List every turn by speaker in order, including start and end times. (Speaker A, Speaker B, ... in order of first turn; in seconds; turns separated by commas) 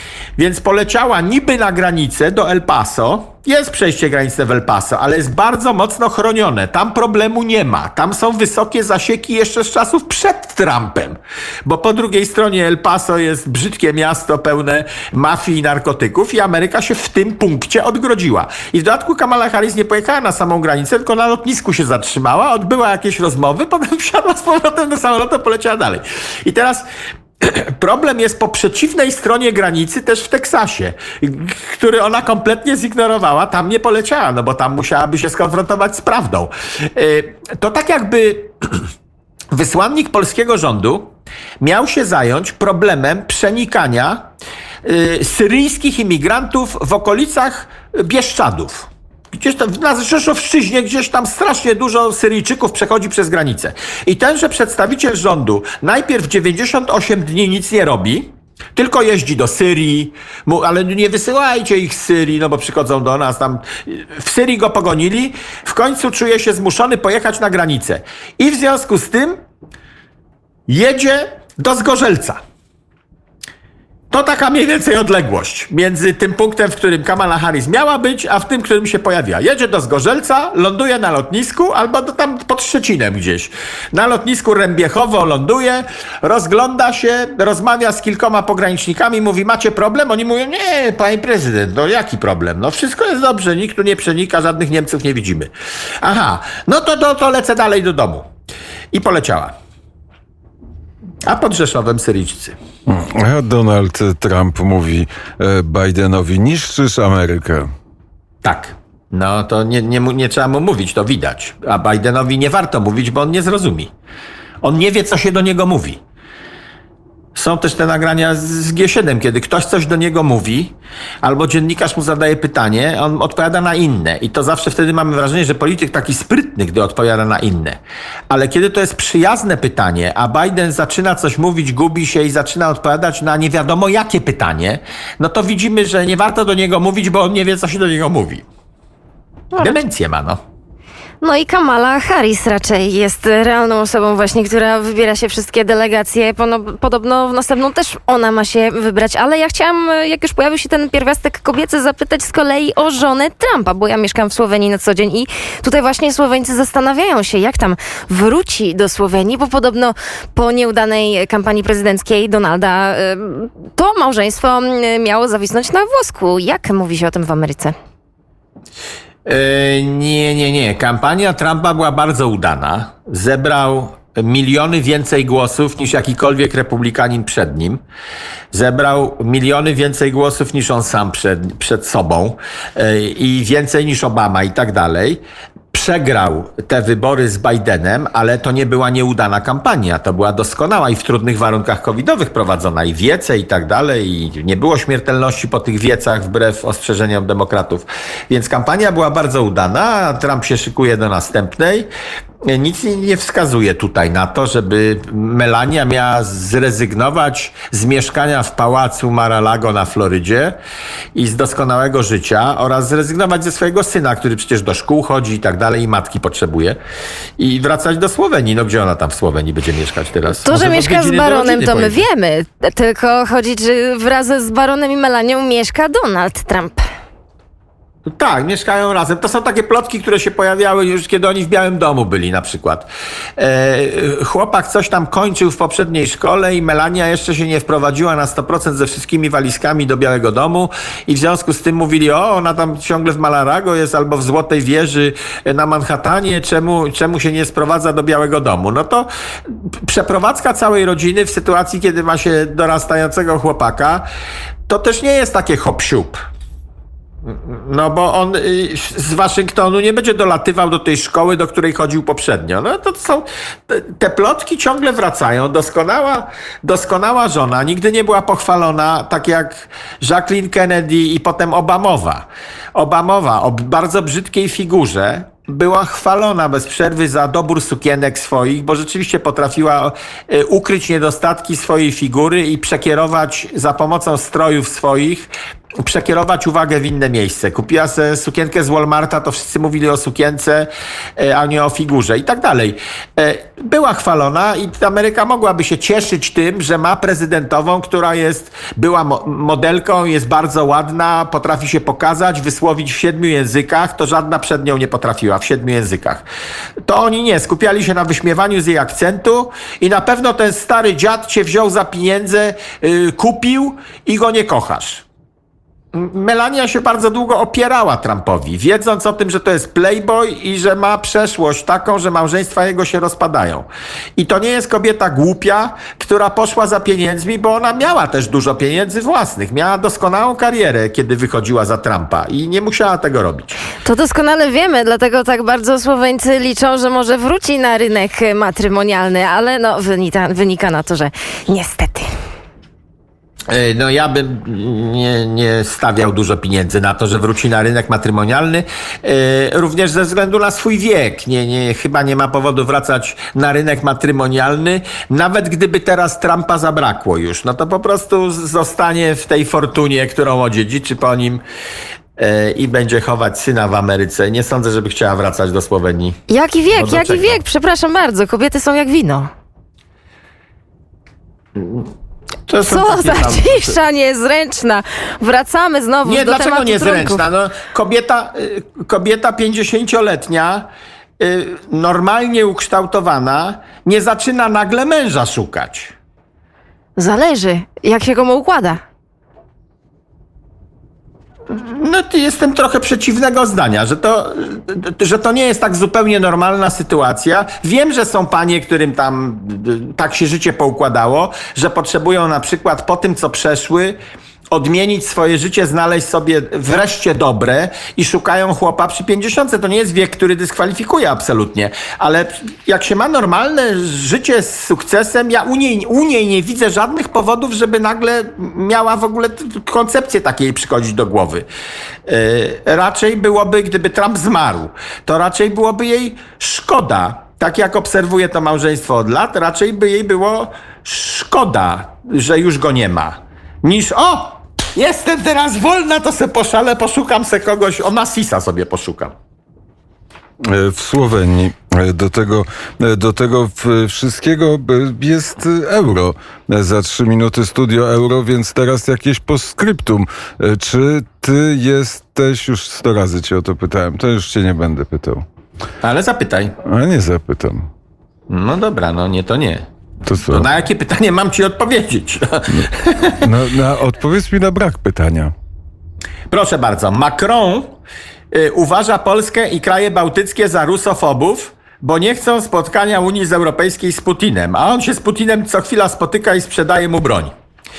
Speaker A: 0.4-26.8, Speaker A: 27.4-38.8, Speaker A: 39.5-44.2, Speaker A: 44.9-69.4, Speaker A: 70.7-72.4, Speaker A: 74.1-98.3, Speaker A: 98.9-99.5, Speaker A: 101.2-102.6, Speaker B: 102.9-107.7, Speaker A: 108.4-113.9, Speaker A: 114.6-116.0, Speaker A: 117.3-127.8, Speaker A: 128.3-138.5, Speaker A: 139.6-140.4, Speaker C: 141.2-167.7, Speaker A: 169.3-177.8, Speaker A: 178.5-185.2, Speaker A: 185.7-201.9, Speaker A: 202.5-210.6, Speaker A: 211.2-216.8, Speaker A: 217.4-222.1, Speaker C: 220.4-226.8, Speaker A: 228.1-254.1, Speaker A: 254.7-256.2, Speaker A: 257.2-285.3, Speaker A: 285.8-306.2, Speaker A: 306.9-315.1, Speaker A: 315.9-333.6, Speaker C: 333.8-342.1, Speaker A: 343.5-361.4, Speaker A: 362.2-366.2, Speaker C: 366.3-369.3, Speaker A: 366.7-367.4, Speaker A: 371.6-371.9, Speaker A: 372.5-373.8, Speaker C: 372.6-377.2, Speaker A: 376.0-385.9, Speaker C: 387.0-388.8, Speaker A: 391.5-404.0, Speaker A: 404.5-421.5, Speaker A: 422.1-439.1, Speaker B: 440.5-455.2, Speaker A: 455.8-456.6, Speaker B: 456.6-457.7, Speaker A: 458.3-459.6, Speaker B: 460.1-460.5, Speaker A: 460.2-463.2, Speaker B: 463.2-465.3, Speaker A: 466.3-467.7, Speaker A: 468.3-477.3